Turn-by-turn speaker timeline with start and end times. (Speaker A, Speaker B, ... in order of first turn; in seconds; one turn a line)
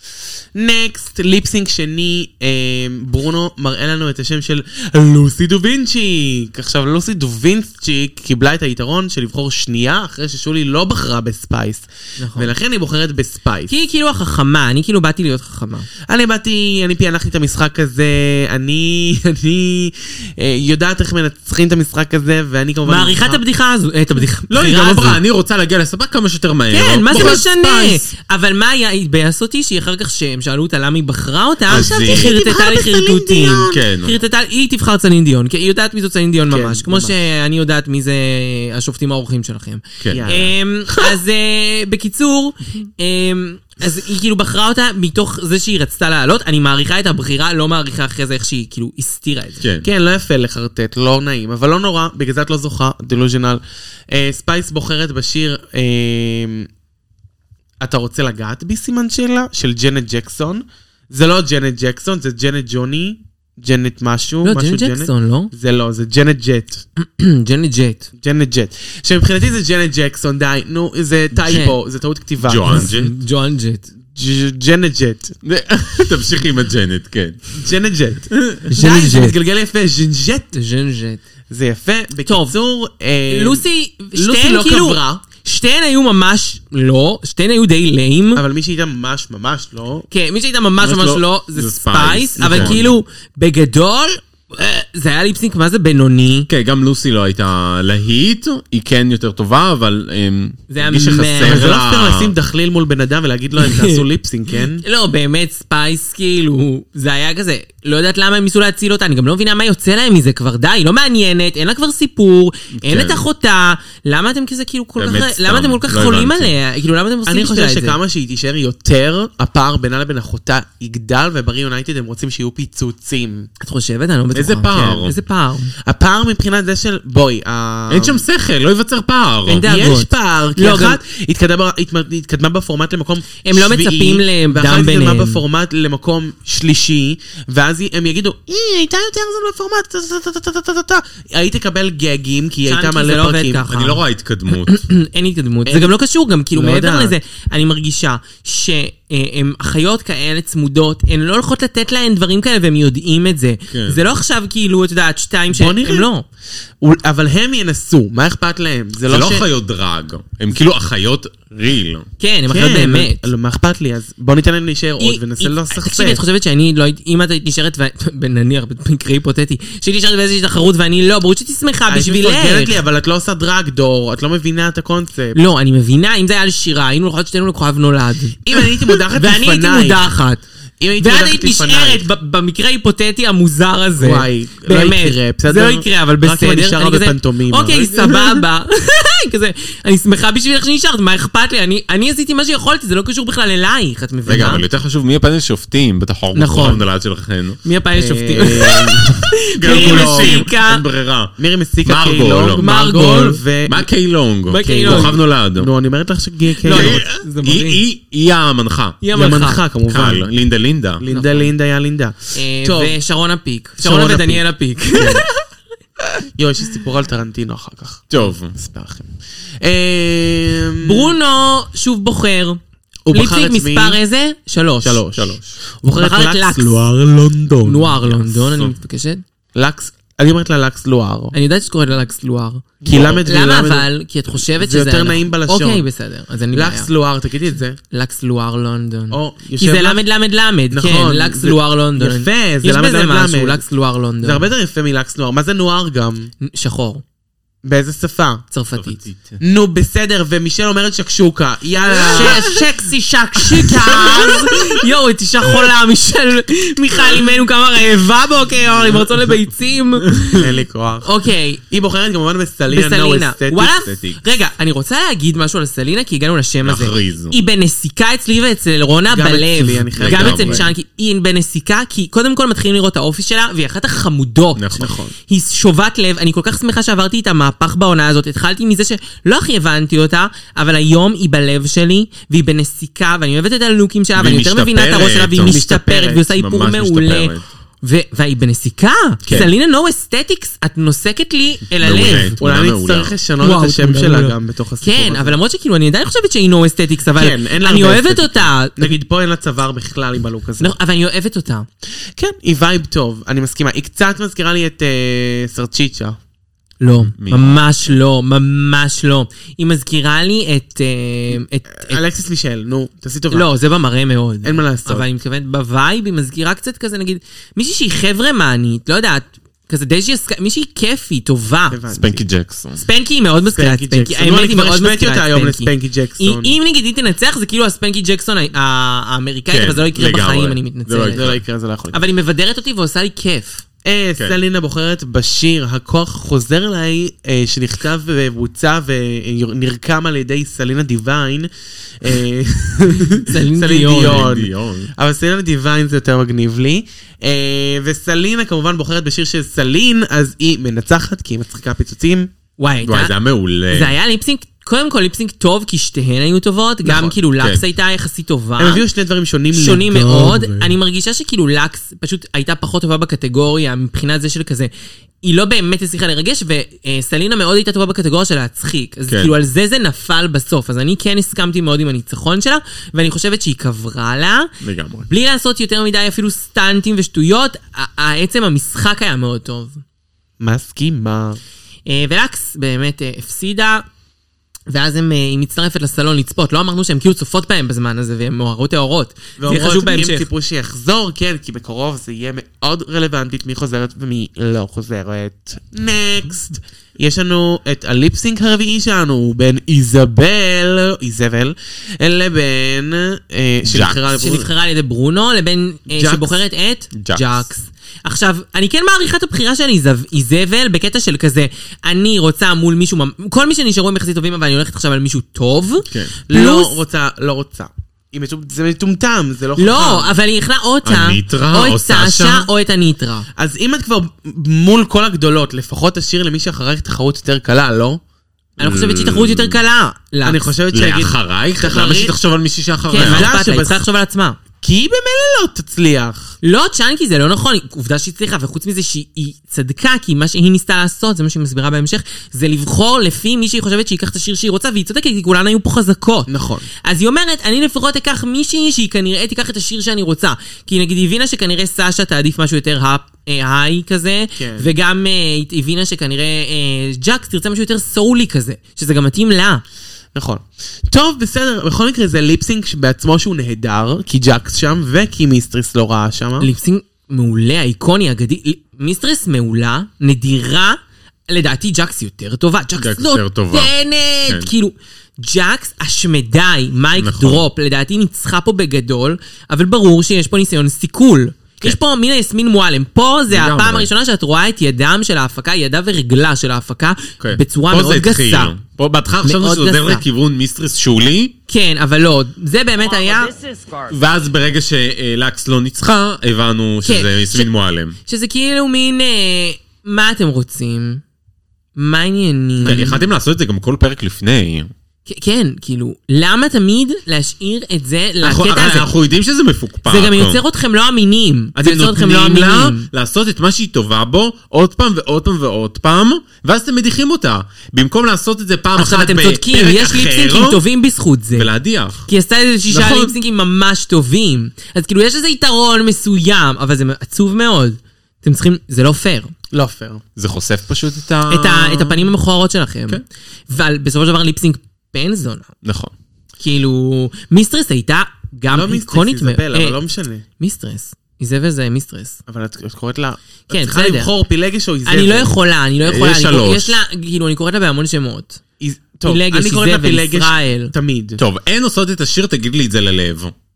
Speaker A: 0.5-13.7
Speaker B: 12.2-12.5
Speaker B: 13.7-15.9
Speaker A: 16.1-23.4
Speaker B: 22.9-25.2
Speaker C: 24.5-28.0
Speaker B: 26.7-49.6
Speaker A: 27.1-27.4
Speaker C: 31.7-32.3
Speaker A: 31.7-33.8
Speaker C: 33.7-34.1
Speaker A: 36.5-37.1
Speaker A: 40.1-41.1
Speaker C: 49.6-49.9
Speaker A: 49.8-56.7
Speaker A: 57.8-66.8
Speaker B: 64.4-65.5
Speaker B: 67.0-68.1
Speaker A: 68.2-72.9
Speaker B: 71.5-71.8
Speaker C: 72.4-73.1
Speaker B: 72.7-73.9
Speaker A: 74.1-75.3
Speaker C: 75.4-77.5
Speaker A: 77.6-80.5
Speaker C: 78.3-78.7
Speaker B: 78.7-79.3
Speaker B: 80.5-81.2
Speaker A: 81.5-85.2
Speaker B: 82.2-82.5
Speaker B: 83.3-88.4
Speaker A: 88.3-90.1
Speaker B: 90.1-96.5
Speaker C: 90.8-92.8
Speaker A: 92.4-93.0
Speaker C: 96.5-102.3
Speaker B: 100.7-101.8
Speaker A: 101.4-104.8
Speaker B: 103.6-104.0
Speaker B: 104.8-118.0
Speaker C: 112.7-113.2
Speaker C: 115.0-116.5
Speaker A: 117.3-123.5
Speaker B: 123.6-125.7
Speaker C: 124.3-125.2
Speaker A: 125.8-128.2
Speaker C: 127.9-129.7
Speaker B: 129.4-131.0
Speaker A: 129.6-143.7
Speaker B: 133.4-135.4
Speaker B: 142.7-156.2
Speaker C: 143.7-144.7
Speaker A: 146.5-147.2
Speaker C: 153.7-154.0
Speaker A: 155.5-156.1
Speaker A: 156.8-159.4
Speaker C: 159.1-162.1
Speaker B: 162.2-163.3
Speaker A: 162.5-166.2
Speaker B: 165.0-172.8
Speaker A: 171.9-175.4
Speaker B: 175.3-180.4
Speaker A: 178.4-180.1
Speaker A: 180.8-182.0
Speaker B: 181.0-194.6
Speaker A: 184.0-187.9
Speaker C: 187.8-188.3
Speaker C: 194.2-197.6
Speaker B: 196.3-196.8
Speaker B: 197.6-200.8
Speaker A: 197.9-200.5
Speaker C: 199.5-202.6
Speaker A: 201.4-203.9
Speaker B: 202.5-203.4
Speaker C: 203.7-205.7
Speaker B: 204.5-205.2
Speaker A: 204.6-207.1
Speaker B: 206.6-207.8
Speaker C: 206.6-209.0
Speaker B: 209.0-209.6
Speaker A: 209.1-210.3
Speaker C: 209.9-211.0
Speaker A: 211.0-212.9
Speaker B: 211.1-211.5
Speaker B: 212.3-215.4
Speaker A: 213.8-215.3
Speaker A: 216.3-221.1
Speaker C: 218.1-218.6
Speaker B: 220.8-222.6
Speaker A: 223.1-224.0
Speaker B: 223.1-225.0
Speaker A: 224.8-228.0
Speaker C: 225.1-225.6
Speaker B: 225.9-226.8
Speaker B: 227.6-229.2
Speaker C: 228.0-228.7
Speaker A: 229.5-231.3
Speaker B: 231.3-236.9
Speaker A: 232.8-235.8
Speaker C: 232.9-233.2
Speaker A: 236.5-237.8
Speaker B: 237.9-244.5
Speaker A: 239.1-240.0
Speaker A: 240.7-243.6
Speaker A: 244.2-246.3
Speaker B: 246.4-247.0
Speaker A: 247.6-248.4
Speaker B: 248.5-249.0
Speaker C: 248.7-249.4
Speaker A: 249.4-252.5
Speaker B: 252.1-260.4
Speaker C: 252.1-252.6
Speaker A: 253.7-254.4
Speaker C: 253.8-254.3
Speaker C: 260.0-260.5
Speaker A: 260.3-261.1
Speaker B: 261.0-261.6
Speaker A: 261.7-263.8
Speaker B: 262.7-292.4
Speaker C: 263.8-264.2
Speaker C: 266.6-267.4
Speaker A: 269.1-270.7
Speaker C: 269.9-270.7
Speaker C: 274.6-275.0
Speaker A: 274.8-275.1
Speaker C: 284.1-285.6
Speaker A: 285.4-286.2
Speaker C: 286.2-287.4
Speaker C: 289.2-289.5
Speaker C: 291.8-293.1
Speaker A: 292.4-295.4
Speaker B: 293.4-299.0
Speaker A: 297.1-300.7
Speaker B: 300.6-301.7
Speaker A: 302.1-306.2
Speaker B: 306.8-312.0
Speaker C: 306.9-307.9
Speaker A: 311.7-313.5
Speaker B: 313.3-321.8
Speaker A: 314.4-315.1
Speaker A: 321.7-322.2
Speaker C: 321.9-322.8
Speaker B: 322.8-331.2
Speaker A: 323.5-326.6
Speaker C: 329.5-331.4
Speaker A: 331.1-332.0
Speaker B: 331.9-333.6
Speaker A: 333.8-341.5
Speaker A: 342.0-352.3
Speaker B: 343.2-344.3
Speaker C: 343.8-344.9
Speaker B: 352.6-353.1
Speaker C: 352.9-353.9
Speaker B: 353.7-358.8
Speaker C: 356.8-357.6
Speaker A: 358.6-360.7
Speaker B: 359.5-364.7
Speaker B: 365.2-374.5
Speaker C: 374.6-375.1
Speaker B: 375.1-379.8
Speaker A: 380.4-381.4
Speaker B: 381.9-383.9
Speaker B: 384.7-390.3
Speaker A: 389.4-404.5
Speaker C: 403.6-404.0
Speaker B: 404.1-416.8
Speaker A: 405.9-406.4
Speaker C: 406.9-407.2
Speaker A: 416.3-420.1
Speaker B: 419.6-423.3
Speaker C: 420.8-422.5
Speaker A: 423.4-428.0
Speaker B: 428.6-430.4
Speaker C: 428.6-429.6
Speaker A: 430.2-432.1
Speaker C: 430.7-433.3
Speaker B: 432.9-434.4
Speaker A: 433.0-433.8
Speaker A: 434.6-436.3
Speaker B: 436.4-446.3
Speaker A: 446.3-446.7
Speaker B: 446.8-459.6
Speaker A: 454.4-454.7
Speaker A: 460.1-466.5
Speaker B: 466.4-488.5
Speaker C: 472.8-473.7
Speaker C: 474.3-474.5
Speaker C: 477.0-477.4
Speaker C: 483.3-483.9
Speaker C: 487.2-491.3
Speaker B: 489.2-490.0
Speaker B: 491.5-493.5
Speaker C: 493.8-498.0
Speaker B: 496.8-497.5
Speaker B: 498.0-501.0
Speaker B: 501.8-503.0
Speaker C: 502.6-504.7
Speaker A: 502.6-502.9
Speaker B: 505.1-508.9
Speaker C: 508.2-510.4
Speaker B: 509.9-512.9
Speaker C: 511.5-520.6
Speaker B: 518.8-521.5
Speaker C: 521.3-522.0
Speaker B: 522.0-529.3
Speaker C: 522.7-523.1
Speaker A: 529.5-530.0
Speaker C: 530.1-532.1
Speaker B: 531.3-535.5
Speaker C: 535.6-535.9
Speaker B: 536.4-539.8
Speaker A: 538.5-540.2
Speaker B: 540.4-542.2
Speaker A: 542.3-545.4
Speaker B: 543.5-544.1
Speaker B: 544.9-548.4
Speaker C: 545.8-546.8
Speaker A: 548.6-551.2
Speaker B: 549.0-550.7
Speaker C: 551.2-553.3